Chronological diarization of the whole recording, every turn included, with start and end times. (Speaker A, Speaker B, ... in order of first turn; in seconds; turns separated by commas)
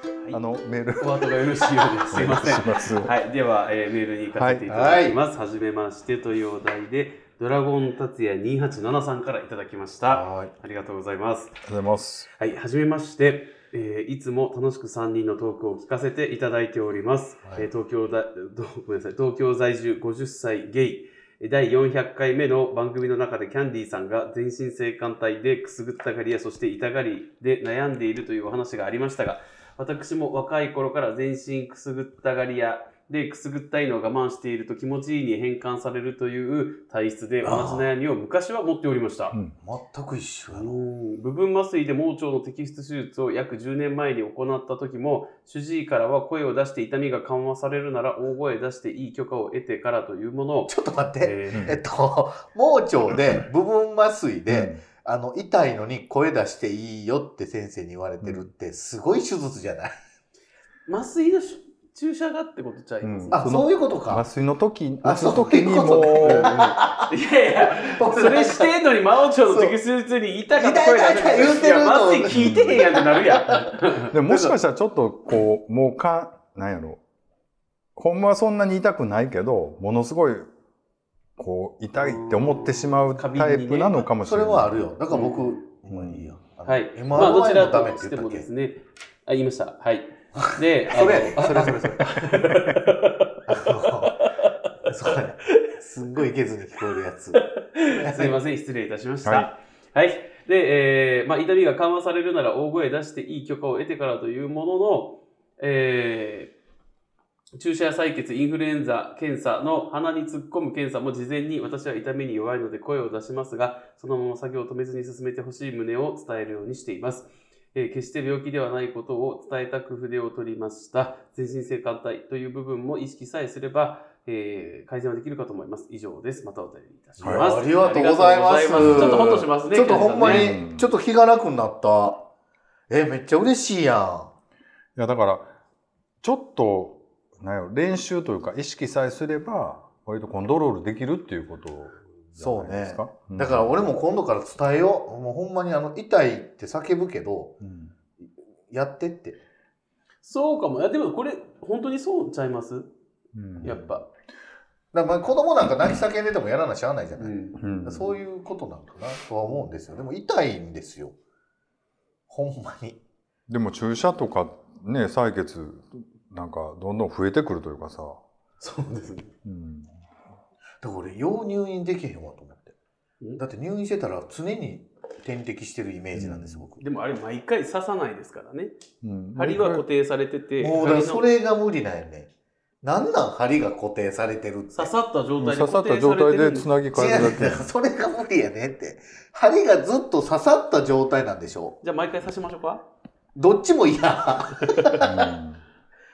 Speaker A: 0.3-1.3, Speaker B: 1.0-11.6, Speaker A: 2.1-3.1, Speaker A: 4.3-4.7, Speaker C: 4.7-5.2, Speaker C: 10.1-10.5, Speaker A: 11.7-12.3, Speaker B: 12.4-39.4, Speaker C: 37.4-37.9, Speaker C: 39.6-40.8, Speaker B: 40.5-51.7, Speaker C: 50.7-59.9, Speaker A: 54.5-54.8, Speaker A: 58.2-58.5, Speaker B: 60.9-63.5, Speaker A: 63.0-66.8, Speaker C: 63.3-64.2, Speaker C: 65.0-67.1, Speaker B: 66.2-74.2, Speaker C: 67.8-68.8, Speaker C: 69.4-69.8, Speaker C: 70.5-74.5, Speaker A: 72.3-72.8, Speaker A: 74.1-77.0, Speaker A: 78.0-80.5, Speaker A: 81.4-84.8, Speaker B: 82.0-84.0, Speaker C: 84.2-88.5, Speaker B: 85.1-85.6, Speaker A: 85.9-86.3, Speaker B: 86.7-94.5, Speaker C: 90.4-92.5, Speaker A: 92.4-92.7, Speaker C: 93.5-94.2, Speaker C: 94.8-98.4, Speaker B: 97.3-106.5, Speaker A: 99.2-99.5, Speaker B: 107.5-130.5, Speaker C: 127.2-132.3, Speaker A: 127.2-127.5, Speaker A: 128.8-129.2, Speaker A: 130.2-130.9, Speaker C: 132.9-134.3, Speaker A: 134.9-135.5, Speaker A: 136.2-143.7, Speaker C: 142.3-147.6, Speaker A: 147.6-147.9, Speaker C: 148.2-149.4, Speaker B: 150.2-152.9, Speaker A: 153.3-153.8, Speaker C: 153.6-153.9, Speaker B: 153.6-154.0, Speaker C: 154.9-161.2, Speaker B: 157.2-157.7, Speaker A: 157.6-158.1, Speaker C: 162.3-163.0, Speaker A: 163.5-168.2, Speaker B: 168.6-169.3, Speaker A: 169.4-169.9, Speaker C: 170.8-172.7, Speaker C: 173.4-176.8, Speaker A: 176.1-176.7, Speaker B: 176.8-178.7, Speaker A: 179.0-179.8, Speaker B: 179.3-181.2, Speaker C: 180.6-182.3, Speaker C: 182.8-184.9, Speaker B: 184.7-186.7, Speaker A: 185.4-187.7, Speaker C: 186.9-191.8, Speaker B: 191.8-192.8, Speaker C: 193.3-195.3, Speaker A: 195.0-195.6